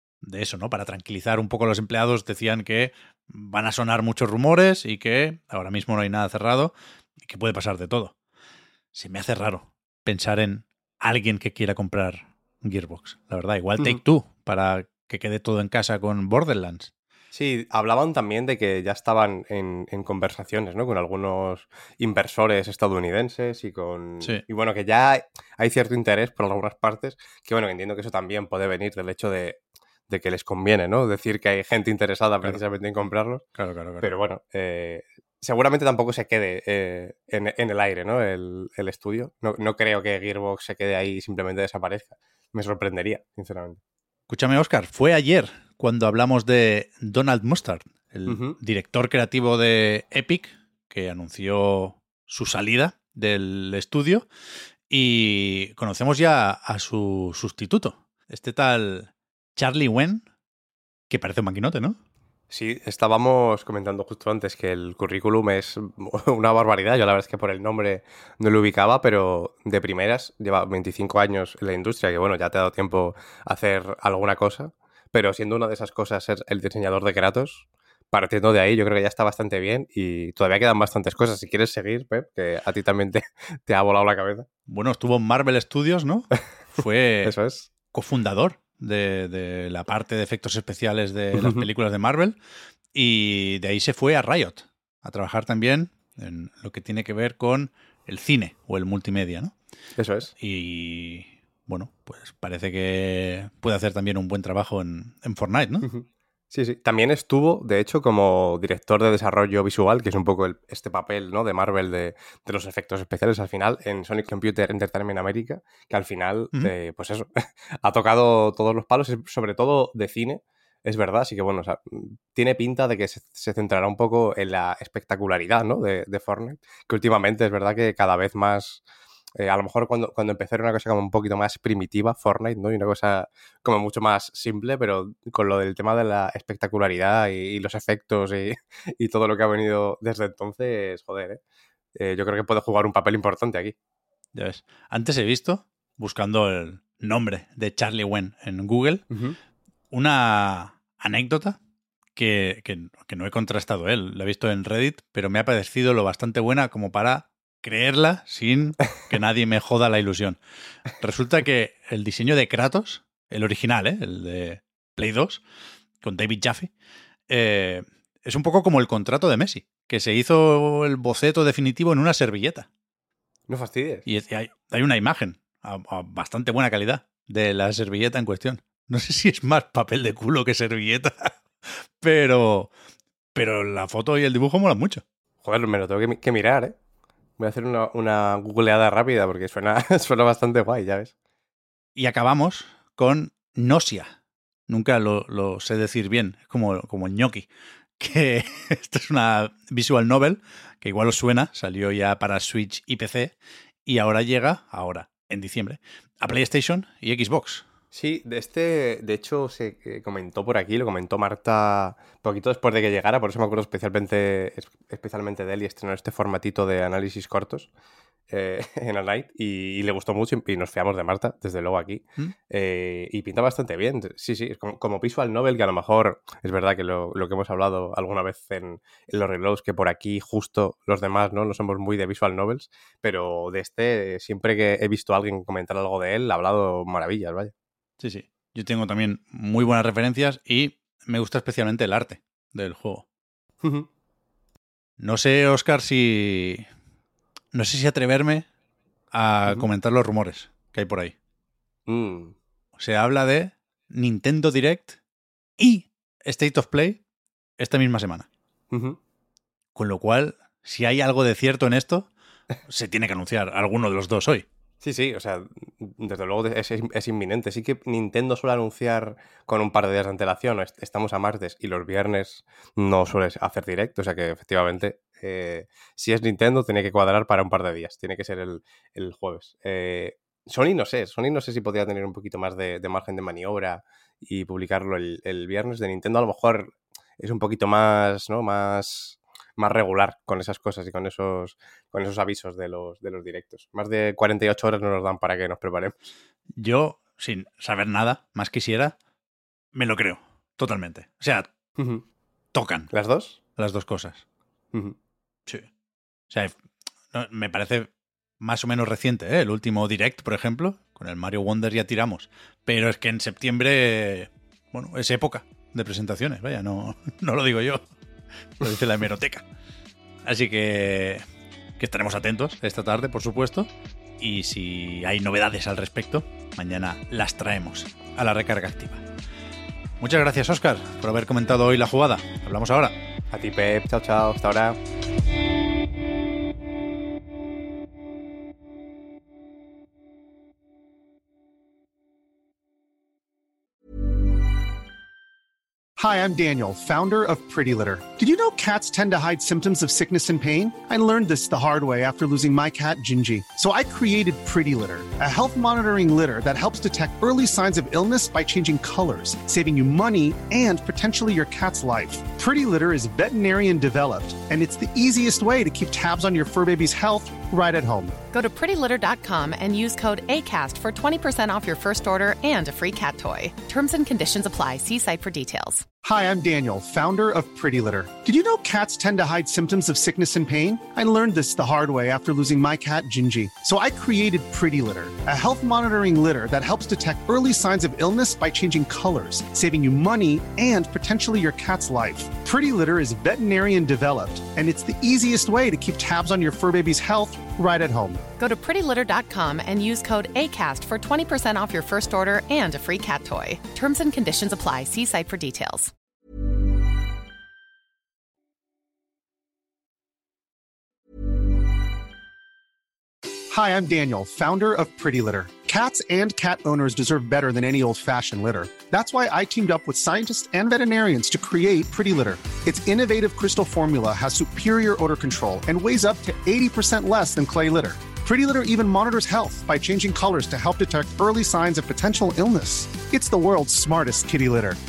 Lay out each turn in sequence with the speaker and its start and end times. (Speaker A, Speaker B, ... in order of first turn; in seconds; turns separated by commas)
Speaker A: 0.2-8.1, Speaker A: 8.9-16.9, Speaker B: 17.3-33.5, Speaker A: 33.6-34.1, Speaker B: 34.0-43.8, Speaker A: 44.3-54.3, Speaker B: 48.3-48.6, Speaker A: 54.9-60.2, Speaker A: 61.1-62.0, Speaker B: 62.5-84.5, Speaker A: 84.7-92.4, Speaker B: 87.2-87.7, Speaker B: 91.3-91.7, Speaker A: 92.9-99.5, Speaker B: 100.0-100.3, Speaker A: 100.4-105.9, Speaker B: 105.8-128.8, Speaker B: 129.4-141.4, Speaker B: 141.9-143.8, Speaker A: 144.3-149.0, Speaker A: 149.9-151.6, Speaker A: 152.2-160.4, Speaker A: 161.0-165.4, Speaker A: 166.0-166.7, Speaker A: 167.3-172.7, Speaker B: 173.5-174.1, Speaker A: 174.1-181.3, Speaker A: 182.0-182.7, Speaker A: 183.3-185.0, Speaker B: 185.4-186.8, Speaker B: 187.4-191.1, Speaker A: 191.9-194.1, Speaker A: 194.7-207.6, Speaker B: 207.9-217.7, Speaker B: 218.3-237.5, Speaker A: 238.0-243.1, Speaker A: 245.0-246.7, Speaker A: 247.5-248.5, Speaker A: 249.1-251.1, Speaker B: 251.9-252.3, Speaker A: 252.8-255.0, Speaker A: 255.6-257.0, Speaker A: 257.6-258.3, Speaker B: 258.7-259.0, Speaker A: 259.7-262.1, Speaker A: 262.7-264.5, Speaker B: 264.8-295.9, Speaker A: 296.5-298.9, Speaker A: 299.7-301.5, Speaker B: 301.8-302.0, Speaker A: 302.5-302.9, Speaker B: 302.9-303.4, Speaker A: 303.6-304.2, Speaker A: 306.3-306.6, Speaker A: 307.1-317.9, Speaker A: 318.6-319.4, Speaker A: 320.2-321.2, Speaker A: 321.8-329.0, Speaker A: 330.0-333.0, Speaker B: 333.3-334.8, Speaker C: 346.0-368.1, Speaker D: 368.3-375.8, Speaker C: 376.0-398.2, Speaker D: 398.4-405.9, Speaker C: 413.5-434.8